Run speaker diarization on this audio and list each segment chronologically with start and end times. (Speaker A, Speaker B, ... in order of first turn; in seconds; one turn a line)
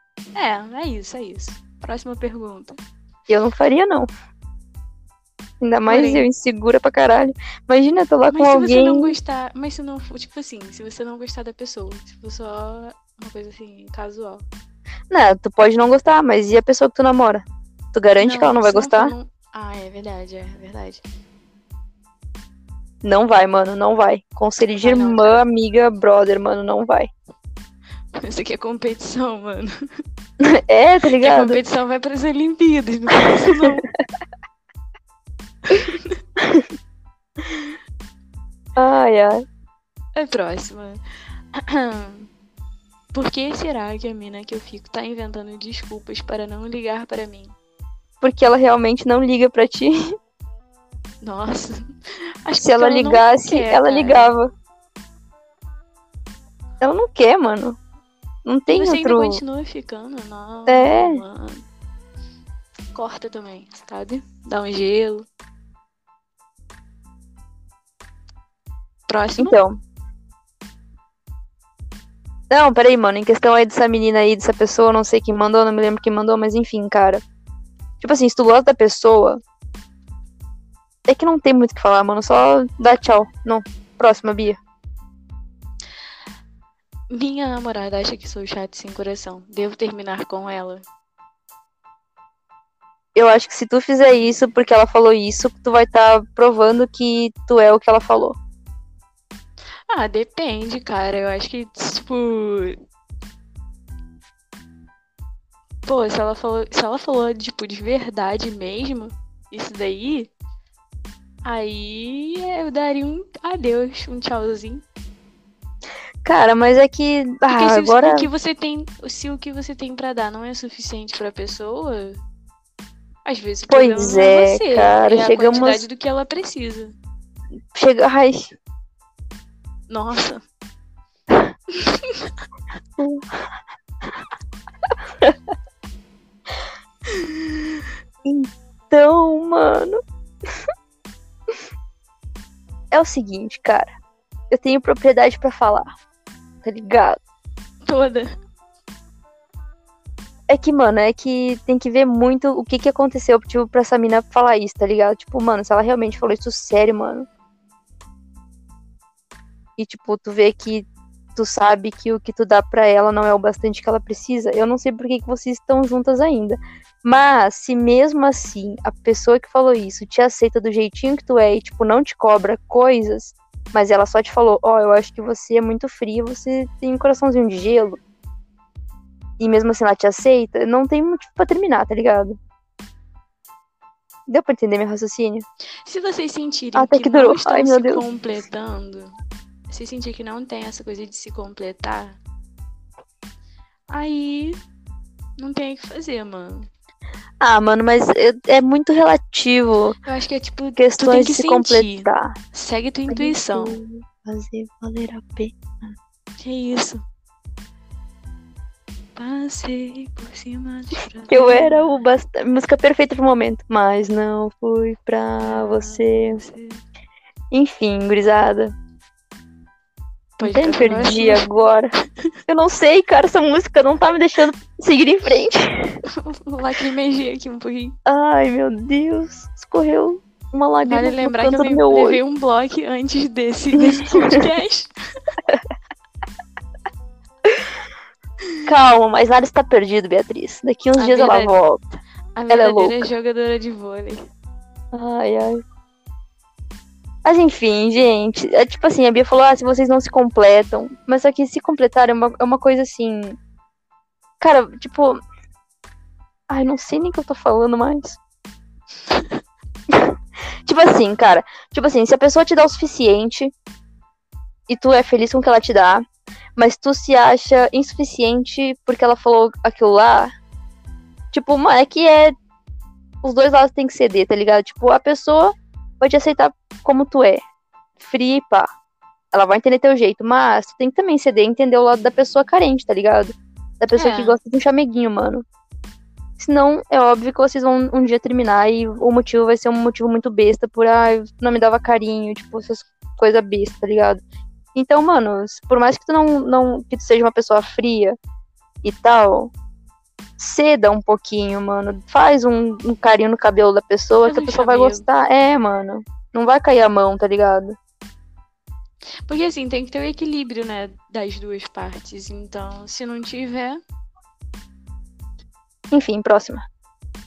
Speaker A: 0.3-2.8
Speaker B: 3.3-4.1
Speaker B: 5.6-9.2
Speaker A: 5.8-6.3
Speaker A: 8.3-14.4
Speaker B: 15.1-19.1
Speaker A: 18.2-21.0
Speaker B: 23.0-27.1
Speaker A: 24.8-25.4
Speaker A: 28.1-29.7
Speaker B: 30.4-31.6
Speaker A: 31.2-33.8
Speaker A: 35.7-36.1
Speaker B: 38.8-39.4
Speaker A: 40.1-41.0
Speaker A: 41.5-42.3
Speaker A: 43.1-47.5
Speaker B: 48.2-50.0
Speaker A: 51.2-51.9
Speaker A: 52.4-54.4
Speaker B: 52.6-54.5
Speaker B: 56.8-57.8
Speaker B: 58.4-59.4
Speaker A: 58.7-61.6
Speaker B: 60.7-61.2
Speaker A: 62.9-65.2
Speaker A: 69.1-69.6
Speaker B: 69.4-69.8
Speaker B: 72.5-77.2
Speaker B: 78.0-79.4
Speaker B: 81.0-84.6
Speaker A: 87.1-90.8
Speaker B: 93.1-98.4
Speaker A: 99.9-102.8
Speaker A: 105.8-110.3
Speaker A: 111.4-114.8
Speaker B: 116.2-118.3
Speaker A: 117.5-122.2
Speaker A: 123.2-127.0
Speaker B: 123.7-125.8
Speaker B: 127.7-128.5
Speaker A: 129.9-130.4
Speaker A: 131.9-132.2
Speaker B: 133.0-133.5
Speaker A: 137.1-137.8
Speaker B: 138.2-140.0
Speaker B: 142.9-143.9
Speaker B: 144.5-145.9
Speaker B: 146.6-147.2
Speaker A: 147.8-148.3
Speaker B: 150.5-157.2
Speaker B: 159.8-178.0
Speaker B: 179.4-182.3
Speaker B: 184.3-185.4
Speaker A: 185.8-189.2
Speaker B: 186.7-188.0
Speaker A: 189.7-192.2
Speaker A: 193.9-194.6
Speaker A: 195.4-196.7
Speaker B: 197.4-199.9
Speaker A: 200.0-203.8
Speaker B: 200.8-202.3
Speaker B: 203.1-205.9
Speaker A: 206.4-207.0
Speaker A: 209.2-212.1
Speaker B: 211.3-216.4
Speaker A: 215.4-216.8
Speaker B: 217.5-218.7
Speaker A: 220.4-221.4
Speaker B: 220.4-221.9
Speaker B: 222.5-226.0
Speaker A: 226.1-227.9
Speaker B: 228.1-232.2
Speaker A: 230.9-234.9
Speaker B: 233.9-234.4
Speaker B: 238.7-241.8
Speaker A: 240.9-241.5
Speaker A: 242.3-244.2
Speaker B: 242.5-243.0
Speaker B: 244.9-245.6
Speaker B: 247.2-253.4
Speaker B: 254.4-255.2
Speaker B: 256.5-258.2
Speaker A: 259.1-259.4
Speaker B: 260.6-263.5
Speaker B: 264.7-266.0
Speaker B: 266.6-270.3
Speaker B: 271.3-272.3
Speaker B: 273.2-277.4
Speaker B: 278.0-278.7
Speaker B: 279.3-285.4
Speaker A: 283.9-284.4
Speaker B: 286.4-294.2
Speaker B: 294.7-298.1
Speaker B: 298.8-299.5
Speaker B: 300.4-307.8
Speaker A: 304.2-305.1
Speaker A: 309.3-313.8
Speaker B: 315.9-316.6